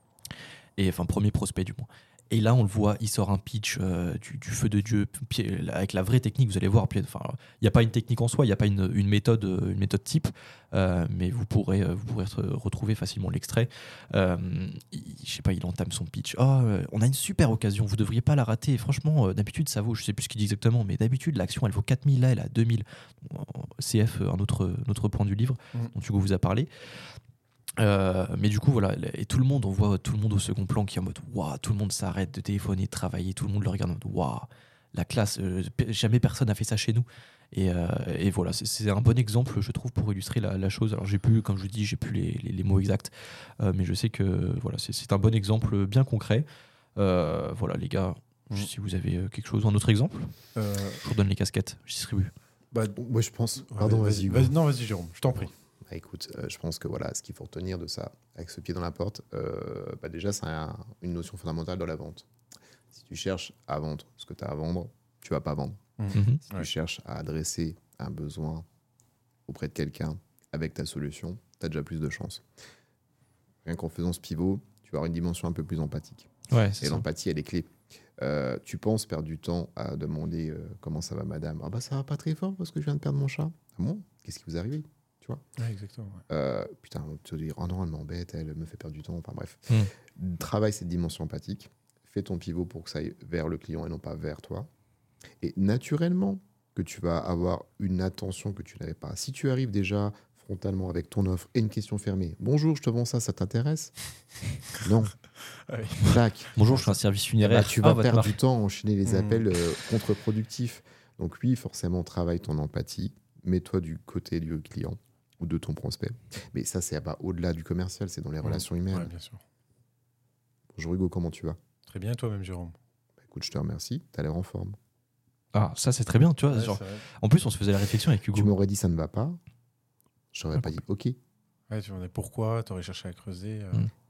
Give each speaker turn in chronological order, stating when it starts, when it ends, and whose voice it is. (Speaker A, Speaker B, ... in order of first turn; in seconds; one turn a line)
Speaker A: 0.8-26.7
Speaker A: 27.8-50.4
Speaker B: 50.5-51.0
Speaker A: 51.0-52.3
Speaker C: 52.9-54.5
Speaker B: 53.7-55.5
Speaker C: 55.4-62.3
Speaker C: 62.9-65.8
Speaker B: 66.0-66.7
Speaker A: 66.1-66.4
Speaker C: 66.4-68.7
Speaker C: 69.5-72.4
Speaker C: 73.6-85.4
Speaker A: 76.5-77.0
Speaker B: 85.6-86.2
Speaker C: 86.3-94.7
Speaker C: 95.4-104.0
Speaker C: 104.8-105.2
Speaker B: 105.7-106.2
Speaker C: 106.0-119.1
Speaker A: 106.5-108.4
Speaker B: 109.0-109.4
Speaker B: 118.4-119.4
Speaker C: 120.7-121.6
Speaker B: 121.9-122.7
Speaker C: 123.2-124.8
Speaker A: 125.5-128.5
Speaker B: 126.5-127.0
Speaker C: 128.3-129.4
Speaker C: 130.3-131.2
Speaker B: 131.7-133.8